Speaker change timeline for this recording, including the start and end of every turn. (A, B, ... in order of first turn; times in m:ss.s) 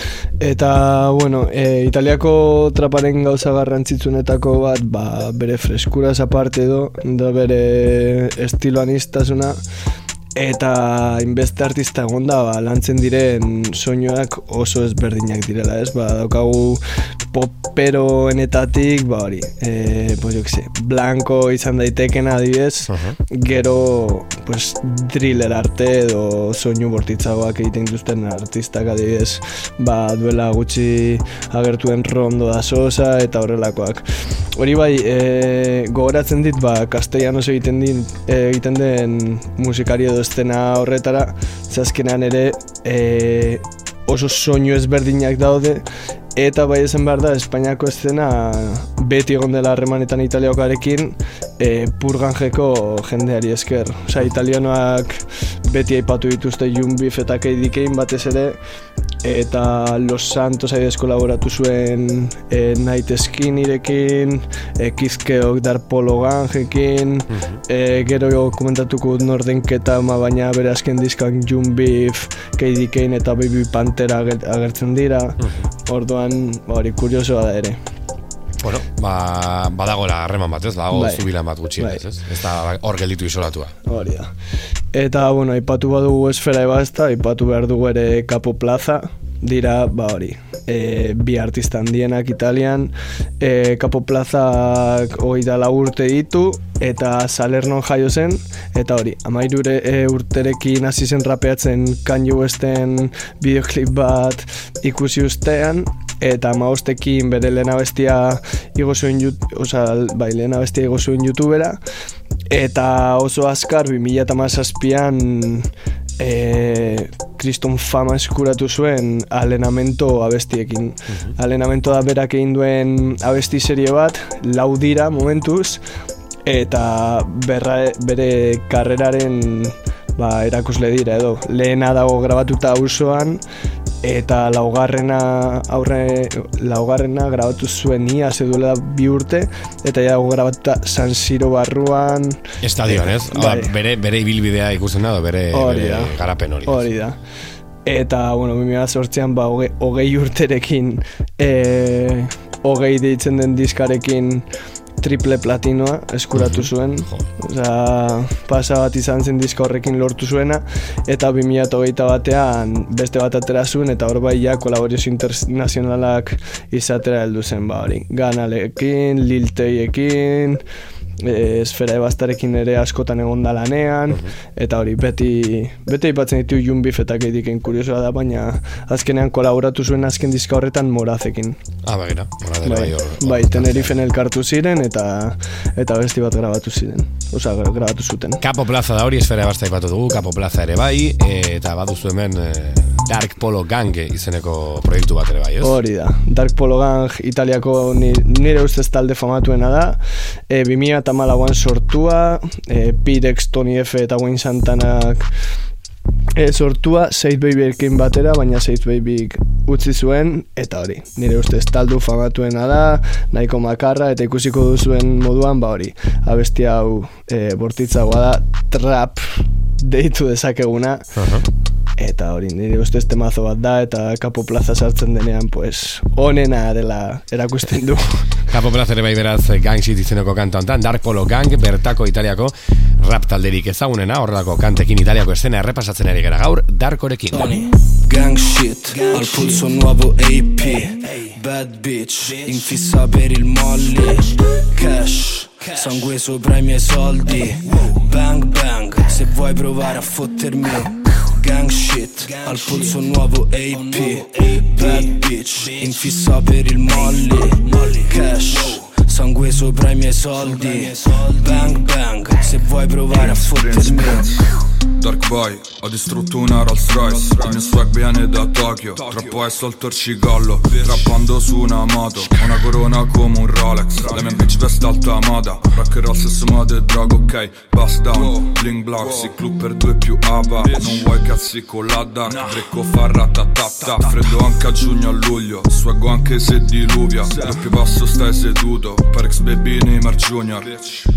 0:00.4-0:09.6 A
0:10.4-0:16.8 A
0:17.3-0:45.8 A
0:22.9-0:23.2 B
0:46.4-0:58.6 A
0:59.2-1:17.8 A
1:07.3-1:07.6 B
1:15.4-1:15.6 B
1:18.6-1:23.7 B
1:20.9-1:22.0 A
1:23.8-1:24.3 A
1:24.9-1:51.8 A
1:52.5-2:05.8 A
2:06.4-2:13.4 A
2:14.0-2:23.7 A
2:22.6-2:26.9 B
2:25.5-2:26.1 A
2:26.6-2:27.2 A
2:27.8-2:34.4 A
2:35.0-2:50.6 A
2:36.3-2:37.3 B
2:51.2-3:01.6 A
3:01.8-3:04.0 B
3:02.6-3:08.4 A
3:08.4-3:15.8 B
3:15.6-3:25.3 A
3:26.4-3:41.1 A
3:41.2-3:41.4 B
3:42.0-3:48.4 A
3:48.5-3:57.6 B
3:57.3-4:24.4 C
4:23.1-4:24.4 D
4:25.0-4:51.1 D